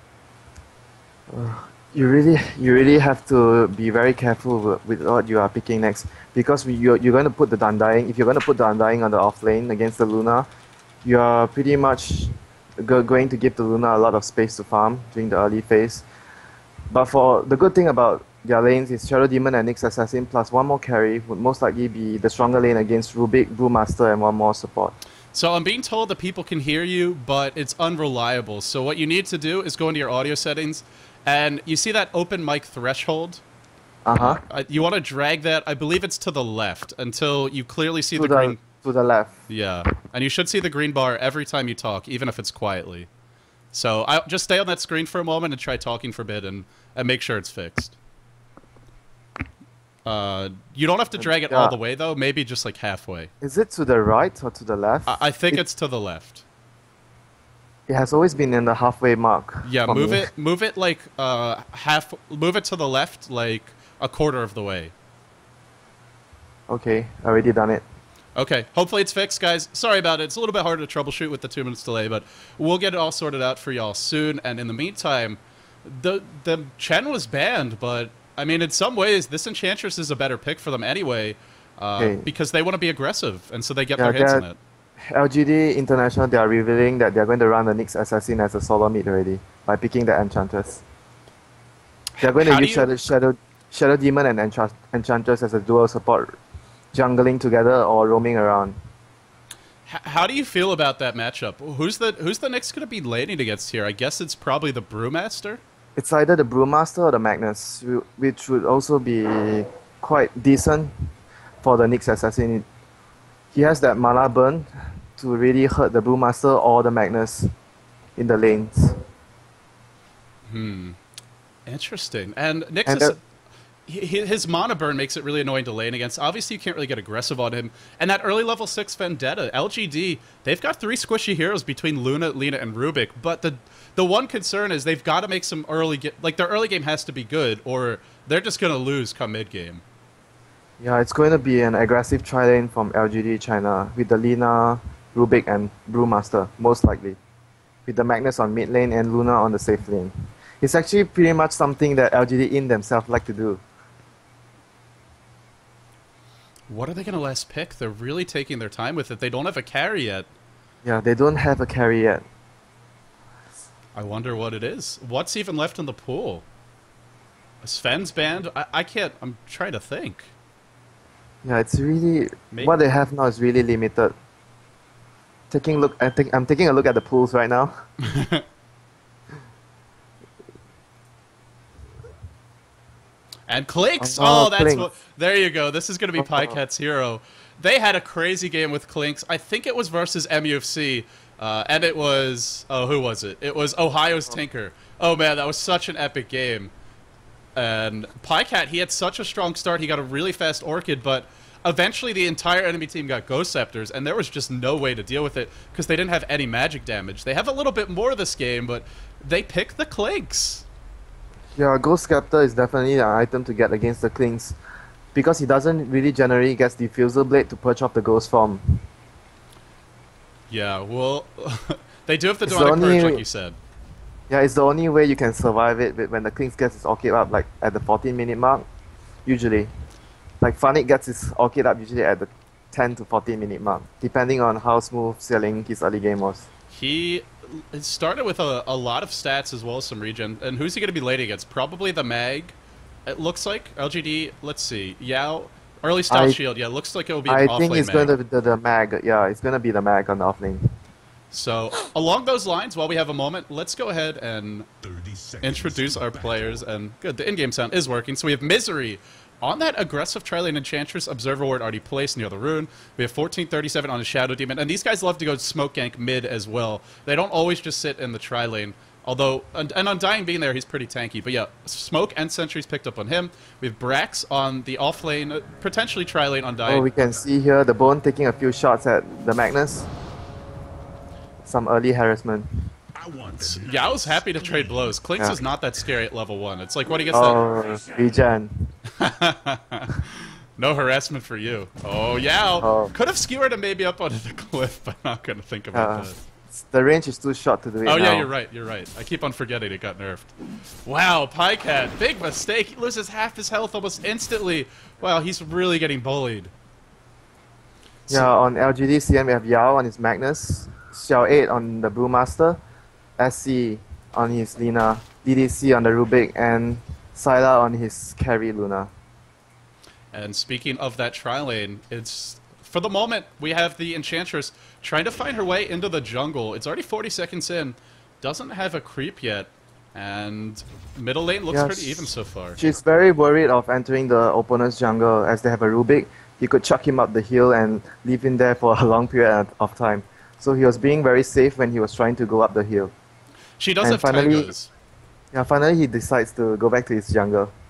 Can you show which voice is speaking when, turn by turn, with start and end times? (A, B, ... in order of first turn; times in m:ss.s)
0:01.3-0:10.5 A
0:11.0-0:16.0 A
0:16.9-0:25.0 A
0:25.3-0:33.4 B
0:34.1-0:34.4 A
0:34.2-0:38.6 B
0:38.2-0:39.3 A
0:39.5-0:43.1 B
0:43.7-0:48.0 B
0:50.1-0:53.3 B
0:51.2-0:51.8 A
0:53.4-0:55.6 A
0:55.1-0:56.4 B
0:57.9-1:00.3 A
0:59.6-1:04.9 B
1:06.7-1:07.8 A
1:08.4-1:24.6 B
1:22.0-1:22.2 A
1:24.0-1:24.4 A
1:25.0-1:30.8 A
1:32.1-1:32.9 B
1:32.2-1:36.4 A
1:36.9-1:38.8 A
1:39.9-1:45.6 B
1:46.0-1:51.1 A
1:51.6-1:52.6 A
1:53.5-1:57.5 A
1:58.2-1:59.0 A
2:00.5-2:01.0 B
2:01.7-2:03.2 B
2:02.9-2:03.1 A
2:03.9-2:19.8 B
2:20.8-2:27.2 A
2:27.9-2:33.6 A
2:36.7-2:40.3 B
2:40.8-2:42.2 A
2:44.0-2:46.4 B
2:47.6-2:50.3 B
2:51.4-2:54.1 A
2:55.5-2:57.8 A
2:58.0-2:58.5 B
3:03.5-3:16.7 B
3:04.0-3:04.9 A
3:06.2-3:06.6 A
3:17.6-3:30.7 B
3:31.6-3:34.6 A
3:35.1-3:38.8 A
3:40.5-3:43.6 B
3:42.4-3:43.2 A
3:44.3-3:48.7 A
3:49.3-3:49.7 A
3:50.4-3:56.5 A
3:56.7-4:08.1 B
4:06.1-4:06.4 A
4:07.3-4:10.7 A
4:11.3-4:14.7 B
4:14.8-4:16.5 C
4:15.4-4:36.9 B
4:36.6-4:39.9 A
4:41.4-4:42.5 A
4:43.0-4:44.9 C
4:43.4-4:47.4 B
4:47.1-4:48.7 A
4:49.0-4:56.2 B
4:52.6-4:52.9 A
4:55.7-4:58.3 A
4:57.8-5:00.3 B
5:00.8-5:06.5 B
5:08.1-5:08.3 B
5:08.1-5:12.6 A
5:13.2-5:18.9 A
5:20.1-5:32.6 B
5:31.5-5:42.9 A
5:43.6-5:44.7 B
5:43.8-5:44.5 A
5:45.3-5:47.5 A